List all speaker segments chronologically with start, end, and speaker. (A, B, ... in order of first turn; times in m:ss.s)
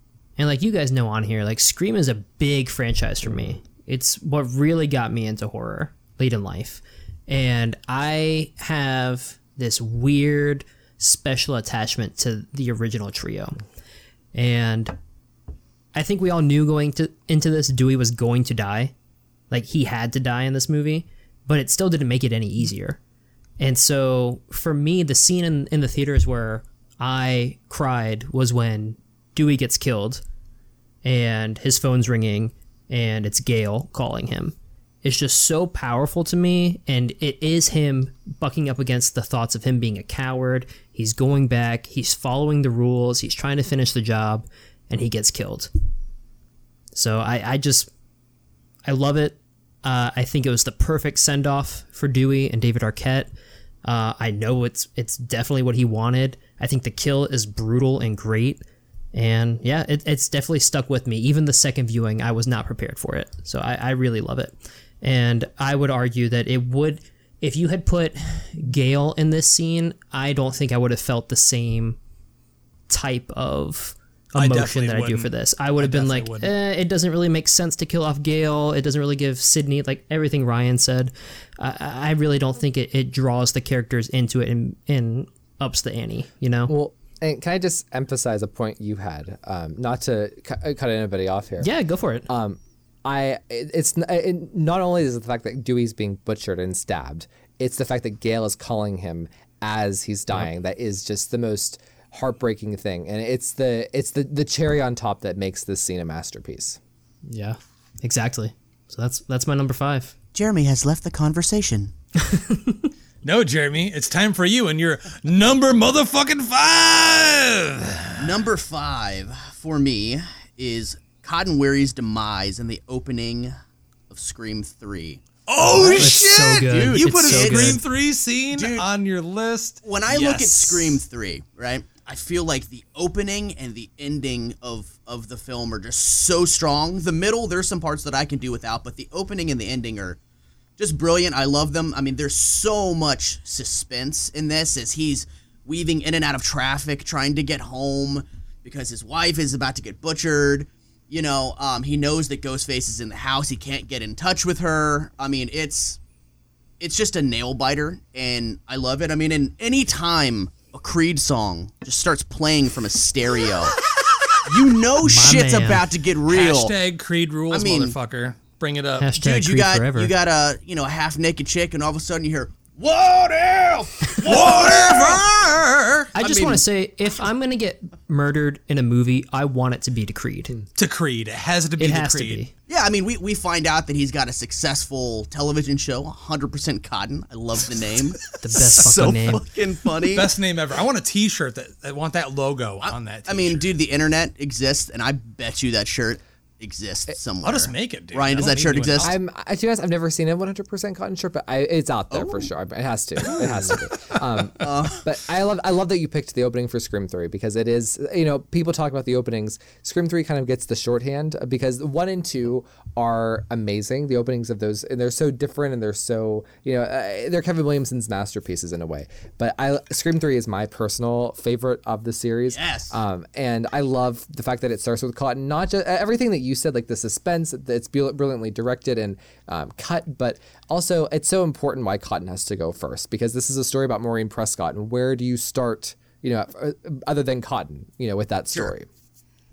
0:00.4-0:13.6 A
0:14.3-0:15.0 A
0:15.9-0:18.9 A
0:19.5-0:23.0 A
0:23.6-0:30.2 A
0:31.0-0:45.7 A
0:46.9-0:47.9 A
0:48.9-0:53.3 A
0:53.8-0:58.6 A
0:59.1-1:12.0 A
1:12.9-1:26.8 A
1:14.4-1:16.5 B
1:26.7-1:31.7 C
1:31.6-1:32.3 A
1:32.3-1:46.8 C
1:47.3-1:50.1 A
1:50.3-1:51.9 D
1:52.3-1:52.9 A
1:53.2-1:58.4 B
1:58.2-2:03.5 D
2:04.1-2:07.8 D
2:05.5-2:11.0 B
2:05.9-2:07.8 A
2:08.5-2:08.8 D
2:09.8-2:20.2 D
2:20.8-2:36.0 D
2:36.8-2:43.8 D
2:44.5-2:46.7 D
2:45.0-2:45.9 A
2:46.3-2:49.1 B
2:47.5-2:48.0 D
2:49.0-2:50.1 A
2:49.2-2:55.5 D
2:54.2-2:56.1 B
2:56.1-2:56.6 D
2:56.2-3:00.6 A
3:00.8-3:02.4 B
3:01.8-3:02.5 A
3:02.7-3:10.3 D
3:08.4-3:09.5 A
3:08.6-3:09.2 B
3:10.0-3:13.7 B
3:12.8-3:19.1 D
3:17.4-3:19.2 B
3:19.0-3:58.9 C
3:22.1-3:22.5 D
3:23.2-3:23.8 D
3:24.6-3:25.1 D
3:42.5-3:43.0 D